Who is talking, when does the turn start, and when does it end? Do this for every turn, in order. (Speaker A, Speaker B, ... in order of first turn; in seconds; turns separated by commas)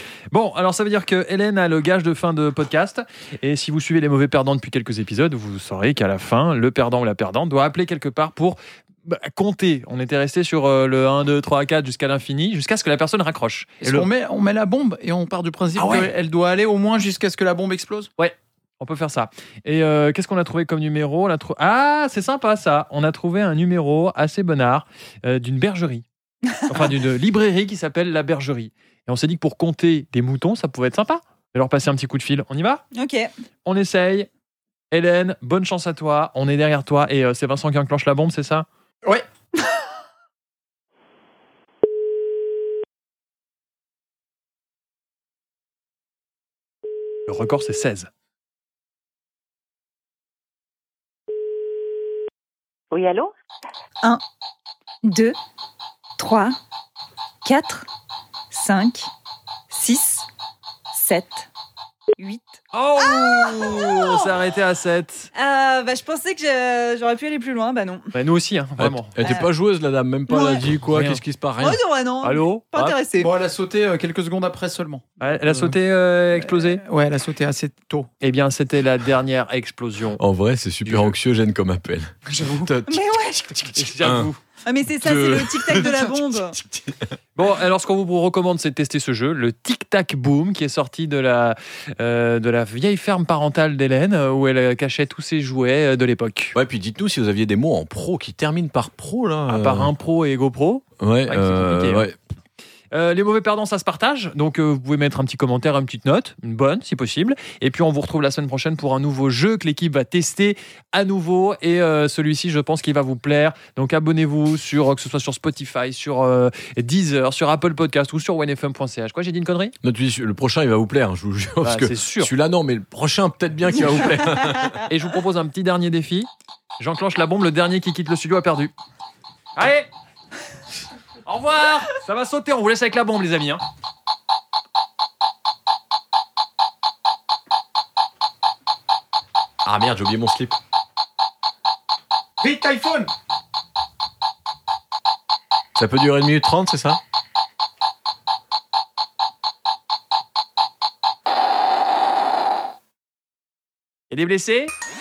Speaker A: 0.3-14.1, Speaker B: 13.8-18.1, Speaker A: 15.8-16.1, Speaker A: 18.2-26.0, Speaker C: 26.5-26.8, Speaker A: 26.7-32.8, Speaker C: 32.9-33.3, Speaker A: 33.6-34.3, Speaker A: 34.9-38.6, Speaker A: 47.3-48.1, Speaker C: 55.0-55.4, Speaker C: 56.2-56.5, Speaker C: 57.4-57.9, Speaker C: 58.5-59.1, Speaker C: 59.7-60.2, Speaker C: 60.9-61.5, Speaker C: 62.2-64.3, Speaker A: 62.7-65.3, Speaker C: 65.3-68.1, Speaker A: 68.1-69.1, Speaker D: 68.8-71.8, Speaker C: 69.2-69.5, Speaker C: 70.3-70.7, Speaker A: 70.9-71.2, Speaker C: 71.6-73.3, Speaker A: 72.2-72.6, Speaker B: 73.2-75.7, Speaker A: 75.2-76.8, Speaker B: 76.8-78.1, Speaker A: 78.2-80.2, Speaker D: 80.2-84.3, Speaker B: 82.2-82.7, Speaker C: 82.9-83.5, Speaker A: 83.7-84.4, Speaker C: 84.6-86.6, Speaker D: 85.0-87.0, Speaker A: 87.3-96.5, Speaker D: 96.5-99.9, Speaker A: 99.5-102.1, Speaker D: 101.0-102.2, Speaker A: 102.9-119.7, Speaker D: 119.8-124.8, Speaker A: 121.6-122.3, Speaker A: 124.7-128.7, Speaker A: 129.6-129.9, Speaker A: 131.2-133.6, Speaker D: 139.6-140.6, Speaker B: 142.4-143.1, Speaker D: 145.8-147.0, Speaker A: 154.1-154.7